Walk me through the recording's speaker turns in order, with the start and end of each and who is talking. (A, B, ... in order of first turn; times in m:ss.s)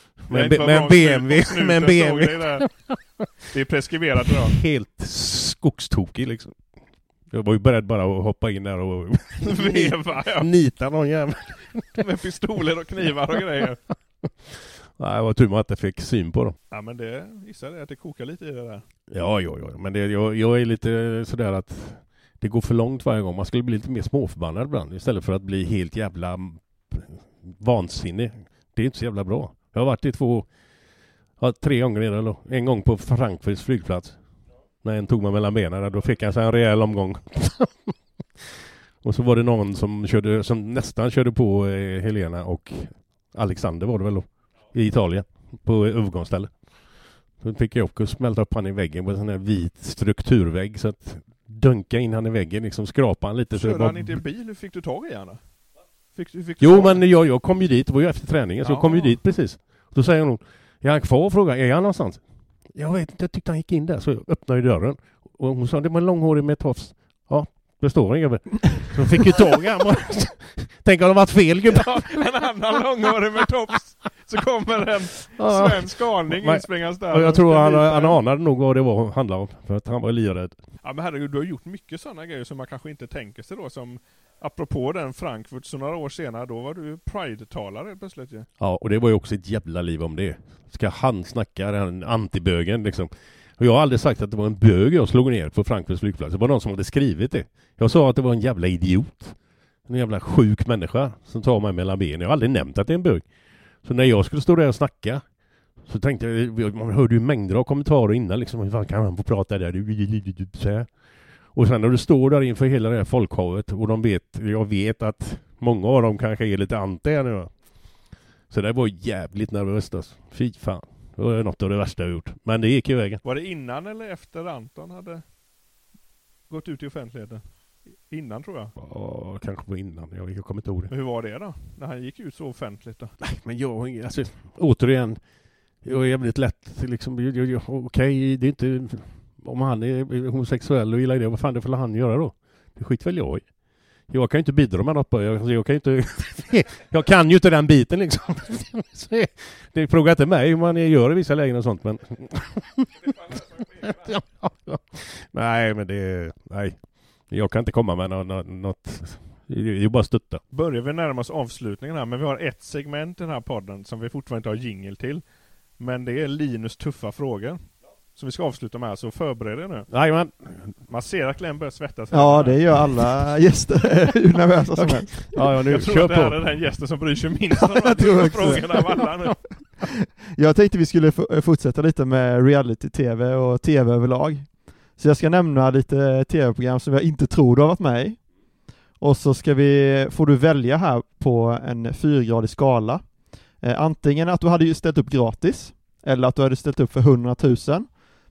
0:00.2-0:03.3 A
0:00.3-0:02.8 B
0:03.4-0:04.6 B
0:04.3-0:06.6 A
0:07.3-0:12.0 A
0:09.4-0:10.5 B
0:12.0-0:13.8 B
0:14.4-0:16.6 A
0:16.7-0:18.8 B
0:19.1-0:30.5 A
0:31.4-0:34.2 A
0:34.8-0:54.2 A
0:53.5-0:55.5 B
0:56.1-0:57.0 B
0:56.6-1:12.2 A
0:58.6-0:59.1 B
1:11.7-1:18.2 B
1:15.4-1:20.6 A
1:20.8-1:28.5 B
1:28.6-1:43.2 A
1:43.8-1:45.2 A
1:45.8-1:50.9 A
1:51.5-1:57.5 A
1:58.5-2:03.2 A
2:03.2-2:05.2 B
2:06.5-2:07.4 B
2:08.0-2:08.7 B
2:08.8-2:10.9 A
2:10.9-2:13.1 B
2:13.2-2:15.2 A
2:15.8-2:23.5 A
2:24.1-2:40.4 A
2:40.5-2:45.2 B
2:45.8-2:49.9 B
2:49.9-2:50.8 A
2:50.9-2:52.9 B
2:52.1-2:55.4 C
2:54.7-2:56.4 A
2:55.4-2:59.4 B
2:57.8-2:58.8 C
2:58.4-2:58.7 A
3:00.3-3:08.2 C
3:09.0-3:18.0 C